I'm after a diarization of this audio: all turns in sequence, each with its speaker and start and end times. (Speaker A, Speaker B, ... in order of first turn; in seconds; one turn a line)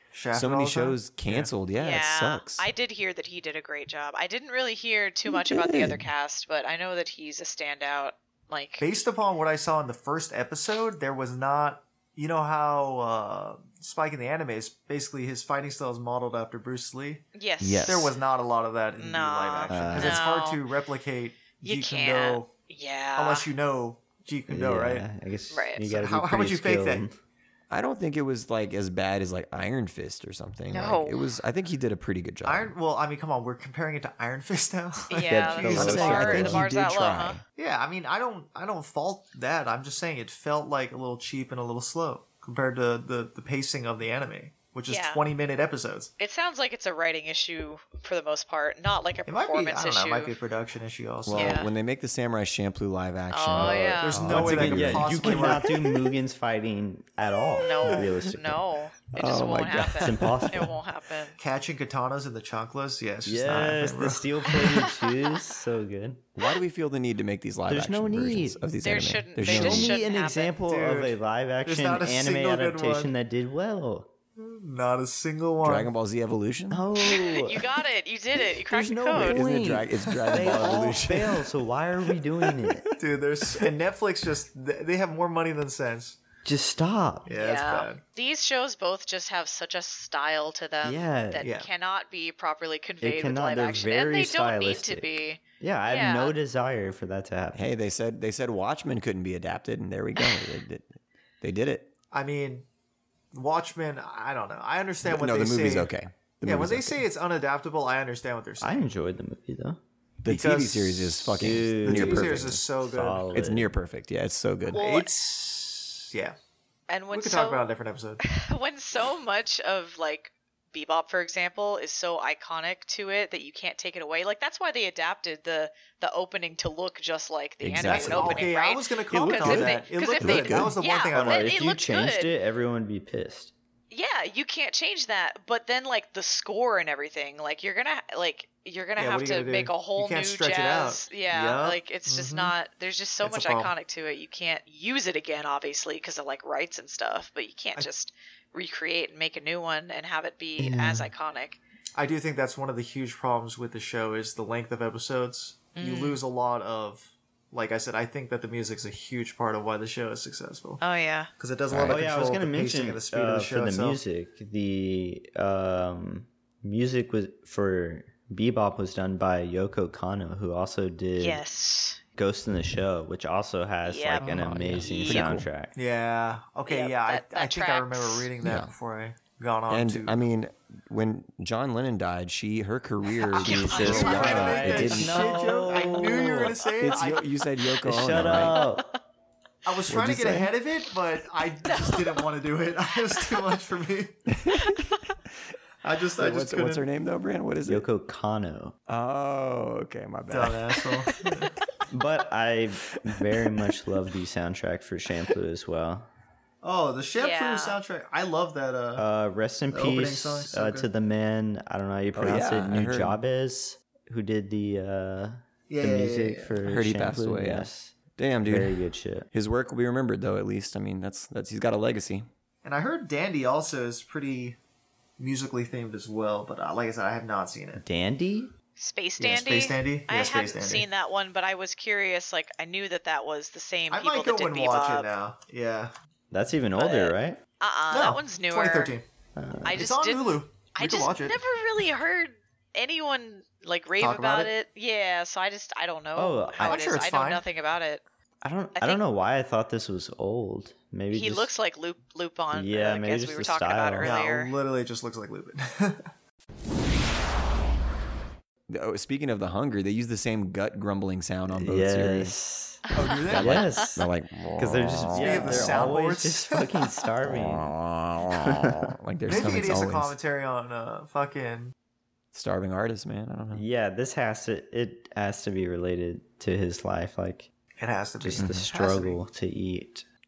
Speaker A: 0.1-1.5
Speaker B: 0.3-2.7
Speaker C: 1.8-8.9
Speaker B: 5.3-6.0
Speaker A: 8.8-17.2
Speaker C: 17.3-18.1
Speaker B: 17.6-18.1
Speaker A: 17.9-22.5
Speaker C: 19.0-20.6
Speaker B: 19.7-20.2
Speaker D: 19.8-20.1
Speaker C: 21.6-23.5
Speaker A: 23.1-25.1
Speaker D: 24.5-27.1
Speaker C: 25.5-25.8
Speaker A: 25.8-27.0
Speaker B: 27.7-32.7
Speaker C: 30.7-31.3
Speaker A: 32.4-36.4
Speaker C: 35.1-37.4
Speaker D: 35.3-36.7
Speaker B: 35.6-37.4
Speaker A: 37.5-46.1
Speaker C: 44.9-45.2
Speaker C: 46.2-50.3
Speaker A: 49.3-51.6
Speaker B: 51.2-55.7
Speaker C: 51.3-51.7
Speaker C: 53.3-54.3
Speaker D: 53.5-58.6
Speaker A: 54.0-55.8
Speaker C: 57.6-61.4
Speaker B: 59.1-60.7
Speaker D: 60.0-60.7
Speaker A: 61.4-64.6
Speaker D: 63.2-66.3
Speaker C: 64.5-64.9
Speaker B: 66.3-69.9
Speaker D: 67.7-68.6
Speaker C: 68.8-70.5
Speaker D: 69.4-74.1
Speaker A: 70.7-73.1
Speaker A: 74.3-75.9
Speaker B: 75.6-76.8
Speaker D: 76.7-77.7
Speaker C: 77.0-79.4
Speaker D: 78.7-82.9
Speaker B: 79.1-81.5
Speaker A: 82.9-86.2
Speaker D: 86.4-87.3
Speaker A: 87.2-88.0
Speaker C: 87.3-96.3
Speaker D: 90.8-91.5
Speaker A: 91.4-91.7
Speaker D: 93.0-95.1
Speaker D: 95.6-97.6
Speaker B: 97.5-101.9
Speaker C: 100.2-100.5
Speaker A: 102.1-102.7
Speaker A: 103.3-105.9
Speaker B: 105.0-107.0
Speaker A: 106.4-108.8
Speaker D: 108.6-109.8
Speaker B: 110.2-112.5
Speaker A: 110.2-113.3
Speaker D: 111.3-113.7
Speaker B: 113.3-114.9
Speaker A: 114.7-116.3
Speaker C: 116.9-117.6
Speaker A: 117.1-118.2
Speaker C: 118.2-132.3
Speaker B: 127.6-128.5
Speaker A: 127.8-131.6
Speaker D: 129.1-129.7
Speaker B: 129.4-129.7
Speaker B: 130.2-130.7
Speaker D: 131.1-133.5
Speaker C: 133.9-151.6
Speaker A: 139.0-142.5
Speaker A: 143.2-143.7
Speaker D: 150.6-151.1
Speaker A: 151.9-160.8
Speaker C: 155.7-156.2
Speaker C: 160.8-161.3
Speaker A: 161.4-164.0
Speaker B: 161.7-162.0
Speaker D: 161.8-171.4
Speaker C: 171.2-172.0
Speaker D: 172.2-175.7
Speaker C: 173.8-175.4
Speaker A: 174.2-174.5
Speaker B: 174.2-175.4
Speaker A: 175.7-180.2
Speaker C: 176.7-178.3
Speaker B: 178.4-178.7
Speaker B: 179.7-185.4
Speaker C: 183.3-184.9
Speaker D: 183.3-186.6
Speaker A: 183.7-187.3
Speaker C: 185.6-187.0
Speaker B: 186.8-188.6
Speaker D: 187.8-188.9
Speaker C: 188.2-188.9
Speaker A: 189.6-194.2
Speaker B: 189.9-190.5
Speaker C: 191.6-192.2
Speaker C: 193.1-193.4
Speaker B: 194.3-194.9
Speaker C: 194.6-195.0
Speaker A: 195.8-196.8
Speaker B: 196.2-197.8
Speaker D: 197.6-198.8
Speaker B: 198.9-200.8
Speaker A: 200.3-201.5
Speaker D: 201.9-206.1
Speaker B: 203.1-203.8
Speaker A: 206.6-209.0
Speaker C: 207.2-207.8
Speaker D: 209.0-219.3
Speaker A: 209.7-210.9
Speaker B: 212.1-213.2
Speaker A: 215.7-216.6
Speaker B: 216.6-218.8
Speaker B: 219.3-222.3
Speaker A: 222.6-224.6
Speaker A: 225.2-227.8
Speaker D: 227.8-228.5
Speaker C: 228.8-235.1
Speaker A: 229.2-230.9
Speaker A: 233.9-235.9
Speaker D: 236.3-237.4
Speaker C: 236.8-238.9
Speaker A: 237.9-239.1
Speaker D: 239.3-239.8
Speaker C: 239.6-248.0
Speaker A: 239.7-241.4
Speaker A: 244.0-244.5
Speaker D: 246.2-246.8
Speaker A: 246.6-247.4
Speaker D: 248.4-251.5
Speaker C: 248.8-249.0
Speaker C: 251.1-254.5
Speaker D: 252.5-254.1
Speaker A: 254.0-256.1
Speaker B: 258.7-262.4
Speaker D: 261.5-267.7
Speaker A: 262.9-263.7
Speaker B: 263.3-265.9
Speaker A: 265.1-266.7
Speaker B: 267.2-270.1
Speaker D: 268.3-268.9
Speaker A: 269.3-271.7
Speaker B: 272.3-273.6
Speaker D: 273.5-277.5
Speaker A: 277.8-279.2
Speaker D: 278.2-280.0
Speaker B: 278.4-278.7